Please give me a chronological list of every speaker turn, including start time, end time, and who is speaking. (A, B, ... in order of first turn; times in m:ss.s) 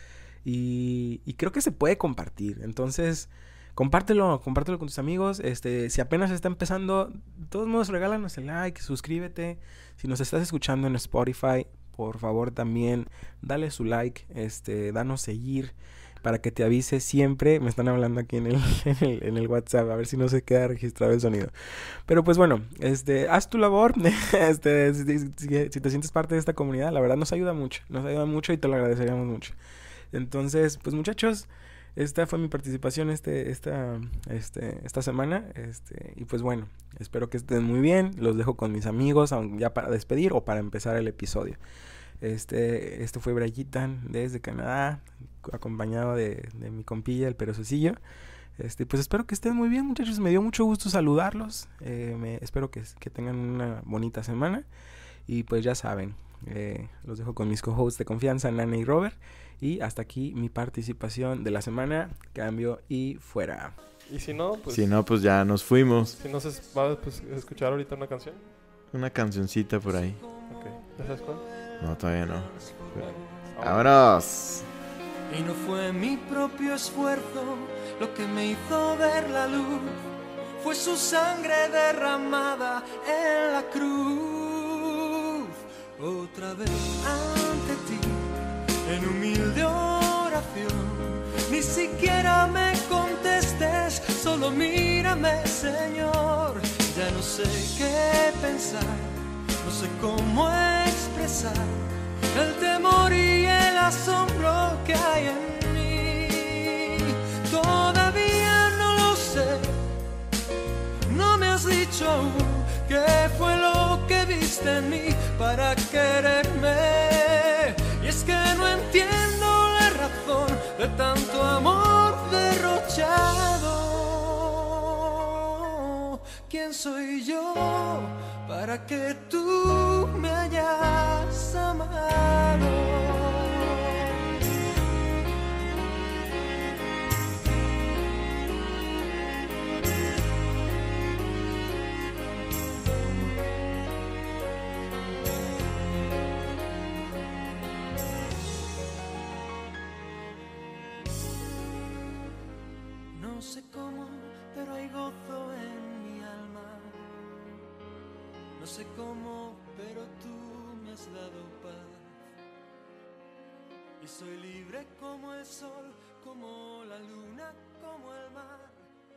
0:00.4-0:21.5 A
0:22.1-0:29.5 A
0:30.1-0:41.6 A
0:42.2-0:48.0 A
0:48.6-0:54.6 A
0:55.3-1:03.7 A
1:04.1-1:04.9 B
1:04.7-1:06.2 C
1:06.2-1:08.4 B
1:08.9-1:10.2 C
1:10.5-1:11.4 B
1:11.8-1:13.0 C
1:12.5-1:13.2 D
1:13.0-1:13.9 B
1:13.6-1:14.7 C
1:15.3-1:49.9 D
1:51.1-2:14.1 D
2:33.1-2:37.1 D
2:38.6-2:42.1 D
2:44.0-2:48.8 D